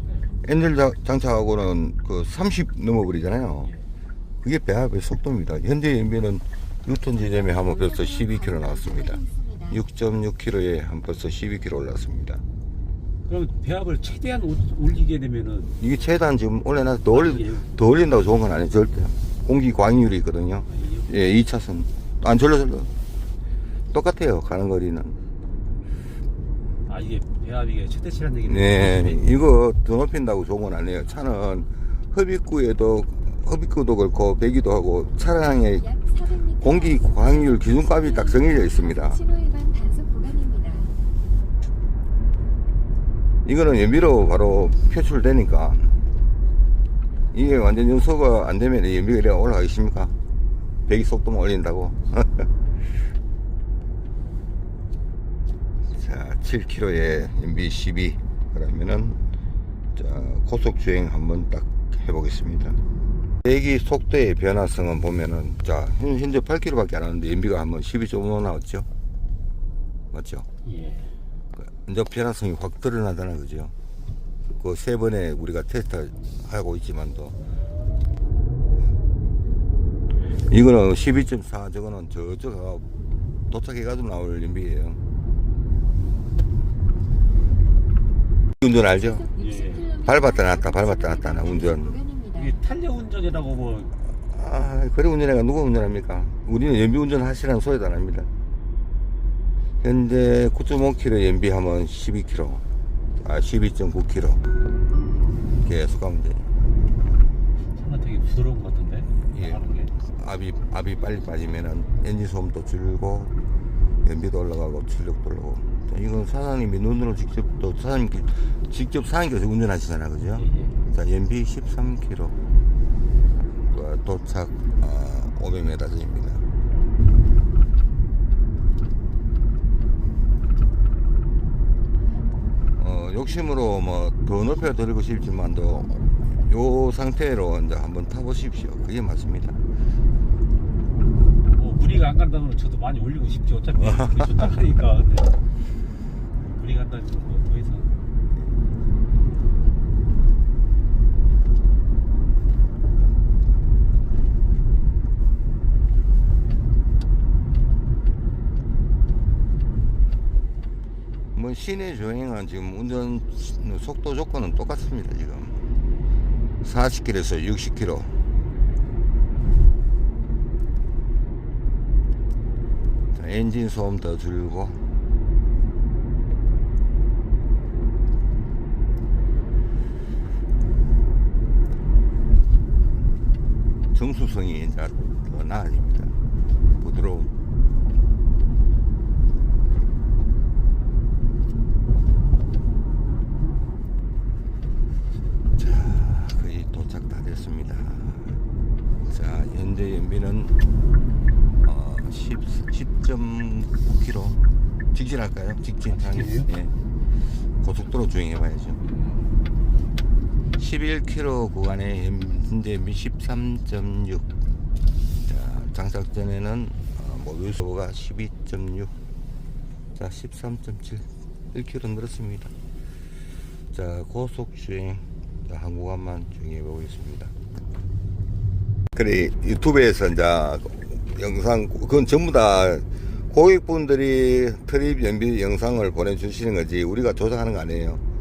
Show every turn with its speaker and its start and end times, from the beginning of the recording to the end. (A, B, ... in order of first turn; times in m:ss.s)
0:00.4-0:03.7 A
0:04.4-0:12.4 A
0:07.2-0:09.8 B
0:13.2-0:15.7 C
0:15.8-0:22.9 A
0:17.1-0:17.7 C
0:20.7-0:21.1 C
0:23.9-0:25.2 A
0:26.8-0:29.4 C
0:28.4-0:35.9 A
0:35.8-0:40.9 B
0:36.5-0:39.2 A
0:43.4-0:45.9 A
0:47.3-0:50.1 A
0:50.9-0:52.5 A
0:55.9-0:59.2 A
1:00.0-1:02.8 A
1:03.4-1:08.9 A
1:10.1-1:10.5 A
1:10.6-1:11.1 C
1:11.6-1:13.7 A
1:14.6-1:17.4 A
1:20.5-1:22.8 A
1:23.5-1:25.0 A
1:28.6-1:29.3 A
1:29.0-1:32.5 B
1:29.4-1:29.9 C
1:30.0-1:32.0 A
1:32.3-1:33.9 C
1:34.3-1:38.3 A
1:39.8-1:42.6 A
1:43.2-1:44.4 A
1:45.6-1:46.5 A
1:47.7-1:49.9 C
1:49.3-1:49.6 A
1:50.1-1:53.3 A
1:54.0-2:02.3 A
2:00.4-2:00.8 C
2:03.6-2:06.4 A
2:12.8-2:19.6 A
2:21.4-2:25.4 C
2:23.8-2:24.5 A
2:26.4-2:27.9 C
2:41.3-2:45.6 A
2:46.6-2:48.1 A
2:53.1-2:54.8 A
3:03.9-3:06.1 A
3:06.8-3:07.3 A
3:15.6-3:18.4 A
3:19.1-3:20.5 A
3:21.6-3:24.4 A
3:24.9-3:26.7 A
3:25.9-3:26.5 C
3:27.6-3:28.8 A
3:30.6-3:34.3 A
3:35.3-3:38.9 A
3:40.0-3:42.5 A
3:43.7-3:47.3 A
3:48.9-3:58.0 A